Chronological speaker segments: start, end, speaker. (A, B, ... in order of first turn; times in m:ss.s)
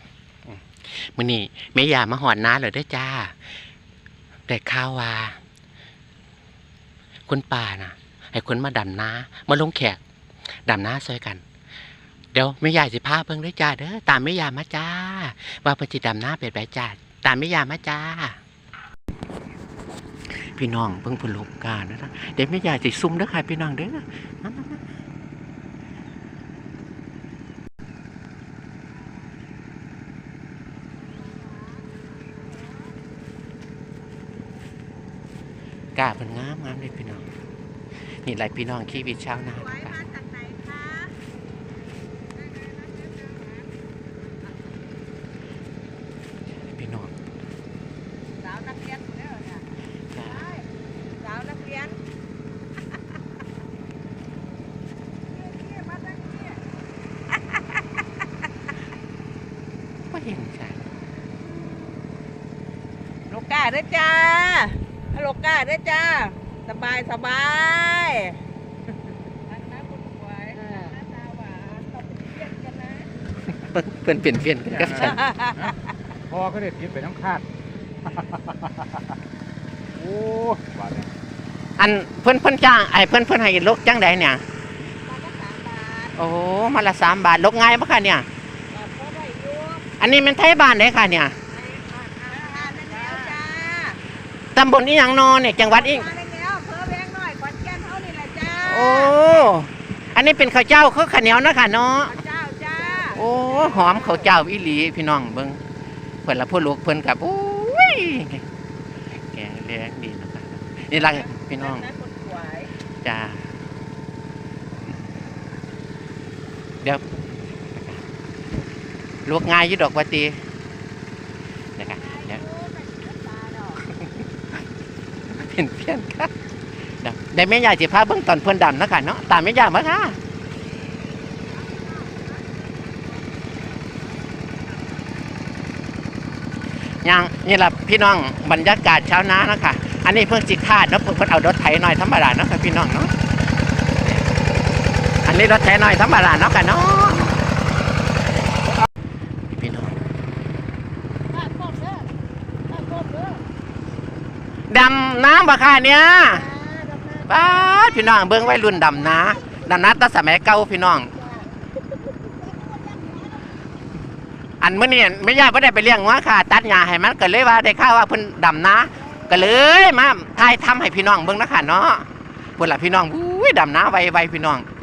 0:00.5-0:03.6 A
0:04.5-0:05.4 A
0:07.3-0:10.0 A
0:10.7-0:11.4 A
0:12.3-0:18.4 A
0:20.3-0:24.8 A
0:36.0-0:37.3 A
0:38.1-0:40.0 A
0:39.0-0:41.2 B
0:42.4-0:43.7 B
0:46.6-0:47.1 A
0:48.4-0:49.7 B
0:50.1-0:50.4 A
0:50.2-0:52.0 B
0:55.3-0:56.6 B
1:00.1-1:00.9 A
1:03.3-1:08.4 B
1:09.4-1:13.1 B
1:13.5-1:15.3 A
1:14.7-1:15.8 C
1:15.0-1:15.7 B
1:16.3-1:17.5 C
1:18.1-1:18.8 C
1:19.9-1:21.1 C
1:21.8-1:24.4 A
1:25.0-1:26.1 B
1:26.1-1:28.3 A
1:28.7-1:29.9 B
1:30.0-1:31.4 A
1:31.6-1:34.0 B
1:34.6-1:36.1 A
1:35.6-1:39.5 B
1:38.6-1:42.2 A
1:42.1-1:44.3 B
1:43.1-1:45.6 A
1:46.2-1:48.4 A
1:49.1-1:51.9 A
1:51.0-1:52.7 B
1:53.0-1:53.5 A
1:59.2-2:00.4 A
2:01.8-2:02.4 A
2:01.8-2:03.8 B
2:03.8-2:04.2 A
2:05.3-2:06.3 A
2:06.9-2:10.2 A
2:11.6-2:13.1 B
2:17.0-2:23.1 A
2:24.0-2:24.3 A
2:25.2-2:27.4 A
2:29.5-2:30.0 A
2:31.4-2:32.0 B
2:32.7-2:33.4 B
2:34.7-2:36.5 A
2:36.4-2:38.1 B
2:37.2-2:41.1 A
2:44.6-2:52.1 A
2:52.6-2:54.7 A